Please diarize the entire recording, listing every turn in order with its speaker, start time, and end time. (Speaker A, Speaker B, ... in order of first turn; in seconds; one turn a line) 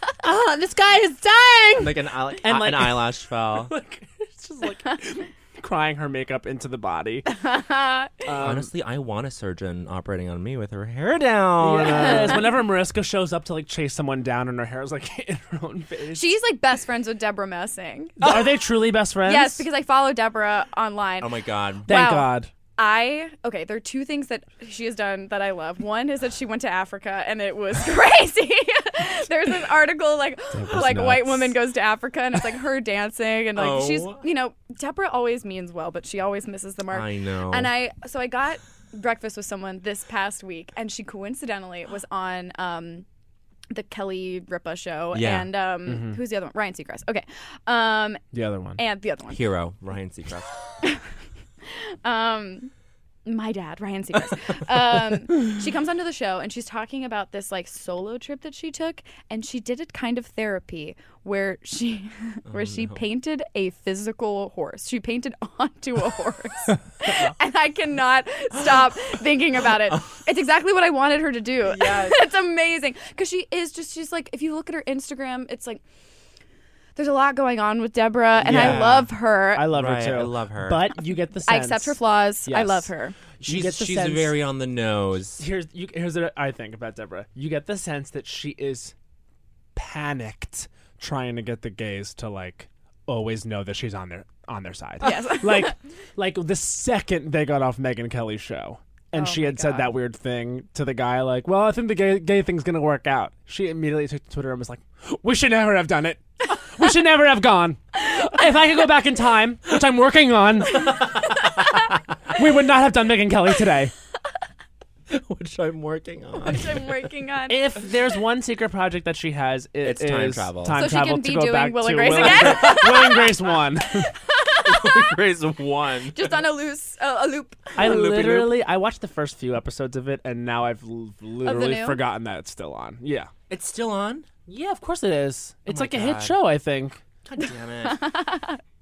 Speaker A: 0.2-7.3
Speaker B: 1.8-3.7
Speaker C: 7.3-8.1
Speaker A: 8.2-8.7
Speaker B: 8.4-12.4
Speaker A: 11.6-16.3
Speaker C: 16.1-18.2
Speaker A: 18.2-19.6
Speaker C: 19.2-43.0
Speaker B: 21.2-21.9
Speaker A: 21.9-22.5
Speaker A: 30.5-31.5
Speaker B: 33.5-34.2
Speaker B: 36.9-37.7
Speaker C: 43.7-48.2
Speaker B: 45.1-45.5
Speaker A: 45.9-46.2
Speaker A: 48.3-48.8
Speaker C: 48.8-49.5
Speaker B: 49.3-50.5
Speaker C: 51.6-52.7
Speaker C: 53.2-75.8
Speaker B: 62.5-63.0
Speaker B: 71.6-72.2
Speaker C: 77.0-79.7
Speaker B: 78.4-79.1
Speaker A: 78.4-82.9
Speaker B: 79.7-80.9
Speaker C: 81.5-83.2
Speaker B: 83.4-85.4
Speaker A: 83.4-84.4
Speaker A: 85.4-88.9
Speaker A: 89.7-110.9
Speaker C: 95.0-95.7
Speaker C: 99.1-99.9
Speaker B: 110.7-112.0
Speaker A: 112.3-113.9
Speaker B: 115.1-117.1
Speaker C: 116.4-117.6
Speaker A: 117.5-124.1
Speaker B: 119.8-120.8
Speaker C: 120.7-125.0
Speaker B: 122.2-123.1
Speaker B: 124.6-126.4
Speaker C: 126.1-127.8
Speaker A: 127.8-133.3
Speaker B: 127.8-128.6
Speaker C: 131.4-132.0
Speaker B: 133.5-134.3
Speaker A: 134.5-137.0
Speaker B: 135.7-136.4
Speaker B: 137.2-138.2
Speaker C: 137.9-138.6